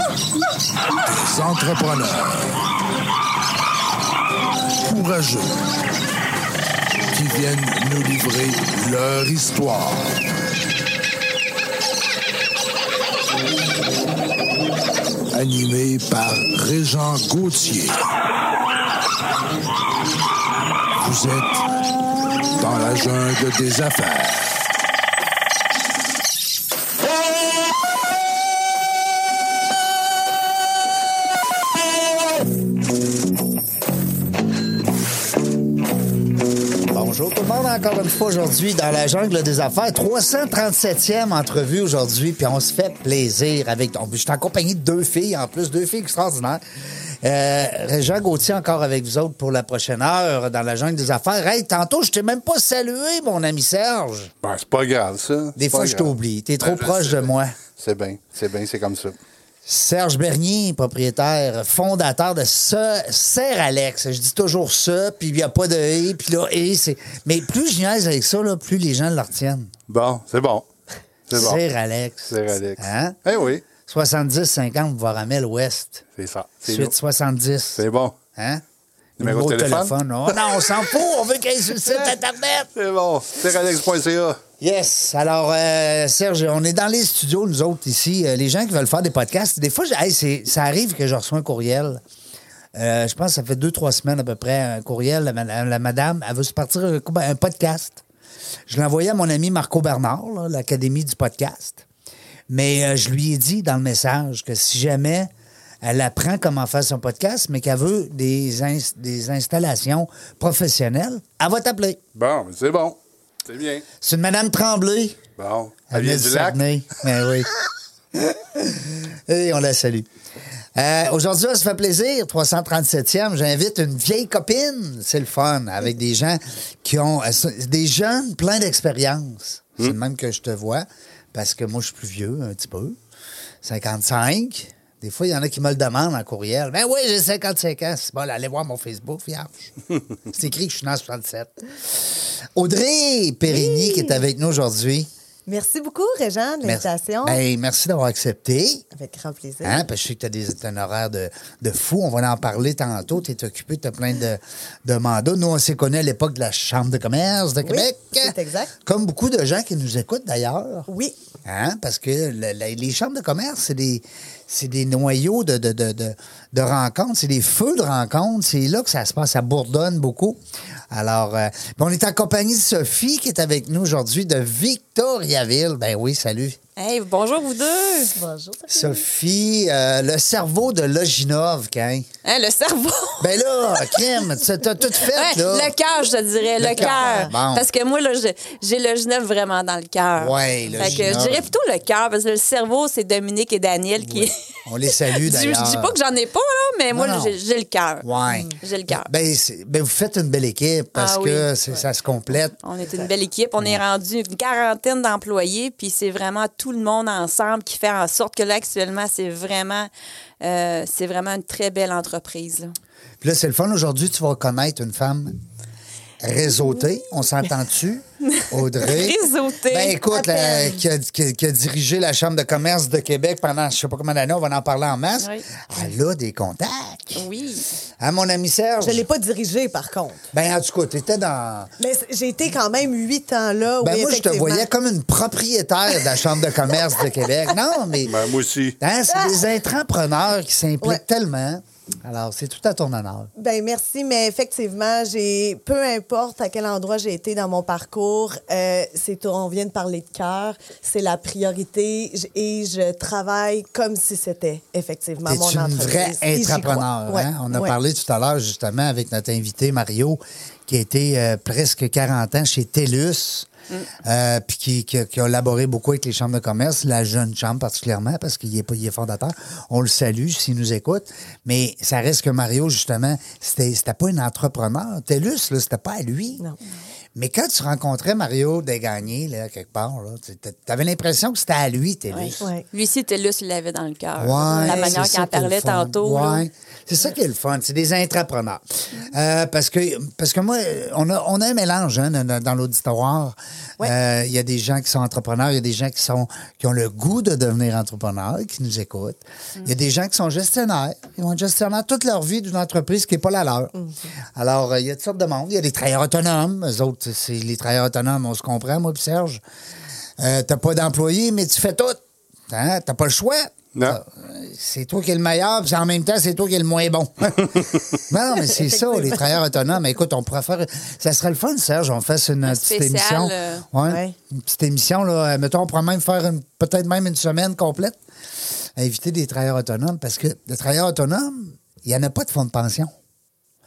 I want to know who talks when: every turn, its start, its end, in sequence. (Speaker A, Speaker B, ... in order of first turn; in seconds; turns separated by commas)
Speaker A: 1.1-2.6, Speaker A: 4.9-5.6, Speaker A: 7.1-10.1, Speaker A: 15.3-18.1, Speaker A: 21.0-21.6, Speaker A: 22.6-24.6, Speaker B: 36.9-46.6, Speaker B: 47.2-54.3, Speaker C: 54.4-59.2, Speaker B: 55.6-57.6, Speaker B: 59.6-69.7, Speaker C: 69.9-70.7, Speaker C: 71.3-71.6, Speaker B: 71.3-73.2, Speaker C: 72.3-73.6, Speaker B: 73.8-76.0, Speaker C: 76.2-76.9, Speaker B: 76.6-77.8, Speaker C: 77.8-78.2, Speaker B: 78.3-78.6, Speaker B: 79.2-82.7, Speaker C: 79.2-80.5, Speaker C: 82.8-84.4, Speaker B: 84.6-92.0, Speaker B: 92.7-98.0, Speaker B: 98.7-101.8, Speaker B: 102.5-105.3, Speaker B: 105.8-112.0, Speaker C: 112.2-113.9, Speaker B: 114.0-115.2, Speaker C: 115.4-116.6, Speaker B: 115.9-117.5, Speaker B: 118.1-120.1, Speaker B: 120.8-133.0, Speaker B: 133.6-139.7, Speaker B: 140.3-145.1, Speaker D: 143.5-144.2, Speaker D: 145.5-147.4, Speaker B: 146.6-148.8, Speaker D: 148.9-149.9, Speaker B: 149.6-160.9, Speaker D: 157.6-158.7, Speaker D: 160.9-161.2, Speaker B: 161.4-170.4, Speaker B: 170.9-176.6, Speaker E: 176.8-178.1, Speaker D: 178.1-179.0, Speaker B: 178.7-182.1, Speaker E: 182.2-183.3, Speaker B: 183.2-185.7, Speaker E: 185.0-194.3, Speaker B: 186.6-187.7, Speaker D: 186.8-187.3, Speaker B: 190.2-191.5, Speaker D: 190.7-191.2, Speaker B: 194.0-195.9, Speaker E: 194.9-198.1, Speaker B: 196.9-197.4, Speaker B: 198.0-202.6, Speaker D: 198.3-198.6, Speaker E: 198.6-199.1, Speaker E: 201.0-201.5, Speaker E: 202.6-209.9, Speaker E: 210.4-212.7, Speaker B: 213.2-215.4, Speaker B: 216.2-227.2, Speaker E: 218.3-219.9, Speaker D: 220.1-220.8, Speaker E: 225.2-225.4, Speaker E: 227.2-227.7, Speaker B: 228.0-229.0, Speaker D: 228.8-230.3, Speaker B: 230.3-231.7, Speaker D: 231.8-234.7, Speaker B: 233.8-238.2, Speaker C: 238.1-238.8, Speaker B: 238.8-243.3, Speaker D: 243.4-257.8, Speaker B: 255.2-263.5, Speaker B: 264.0-276.4, Speaker B: 277.1-282.4, Speaker E: 282.1-286.4, Speaker B: 284.2-303.7, Speaker D: 284.5-285.0, Speaker B: 304.4-309.4, Speaker B: 310.2-328.0, Speaker D: 318.5-319.3, Speaker E: 322.5-323.6, Speaker D: 323.8-324.1, Speaker B: 328.8-332.9